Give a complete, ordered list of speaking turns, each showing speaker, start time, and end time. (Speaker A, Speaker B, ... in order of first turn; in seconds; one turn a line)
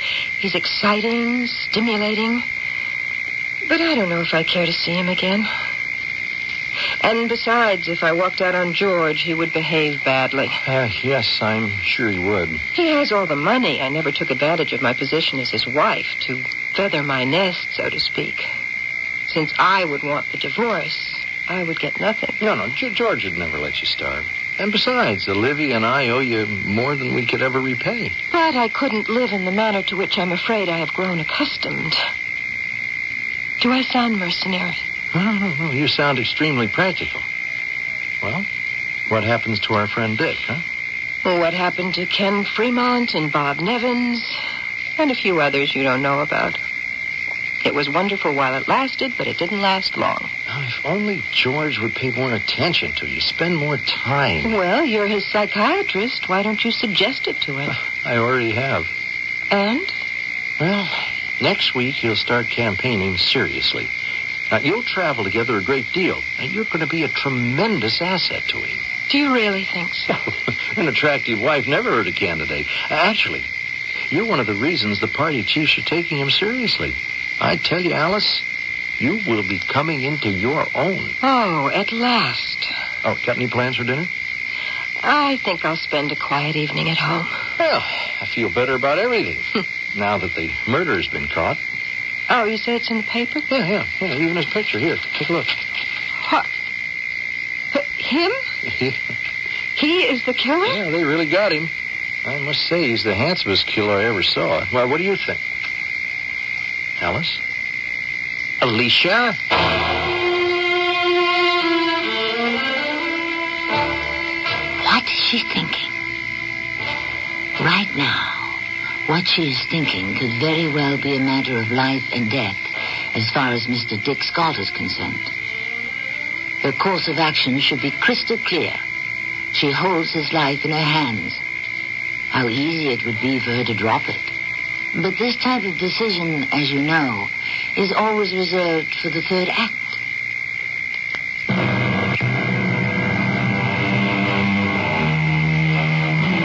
Speaker A: 0.4-2.5
Speaker A: 3.6-5.5
Speaker A: 7.0-10.6
Speaker B: 10.6-12.6
Speaker A: 12.8-18.5
Speaker A: 19.3-22.4
Speaker B: 22.4-28.2
Speaker A: 28.3-32.0
Speaker A: 33.6-34.8
Speaker B: 35.1-37.3
Speaker B: 38.2-38.5
Speaker B: 39.1-40.6
Speaker A: 41.2-44.4
Speaker A: 45.0-46.6
Speaker A: 47.6-50.3
Speaker B: 50.5-54.6
Speaker A: 54.4-57.8
Speaker B: 57.8-58.9
Speaker A: 59.5-59.9
Speaker B: 60.6-63.9
Speaker B: 64.5-68.8
Speaker A: 69.1-70.1
Speaker B: 70.5-73.5
Speaker B: 74.1-78.5
Speaker B: 79.0-81.2
Speaker A: 81.2-82.7
Speaker B: 83.0-84.1
Speaker A: 85.0-87.4
Speaker B: 87.6-91.6
Speaker A: 92.3-93.5
Speaker B: 93.5-95.5
Speaker A: 96.2-96.5
Speaker A: 97.7-98.4
Speaker B: 98.7-99.0
Speaker A: 99.8-100.8
Speaker B: 100.6-101.7
Speaker B: 102.2-105.4
Speaker B: 107.0-107.4
Speaker B: 108.6-109.4
Speaker C: 114.8-115.9
Speaker C: 117.6-125.3
Speaker C: 126.6-128.8
Speaker C: 129.5-131.4
Speaker C: 132.3-134.3
Speaker C: 134.9-140.0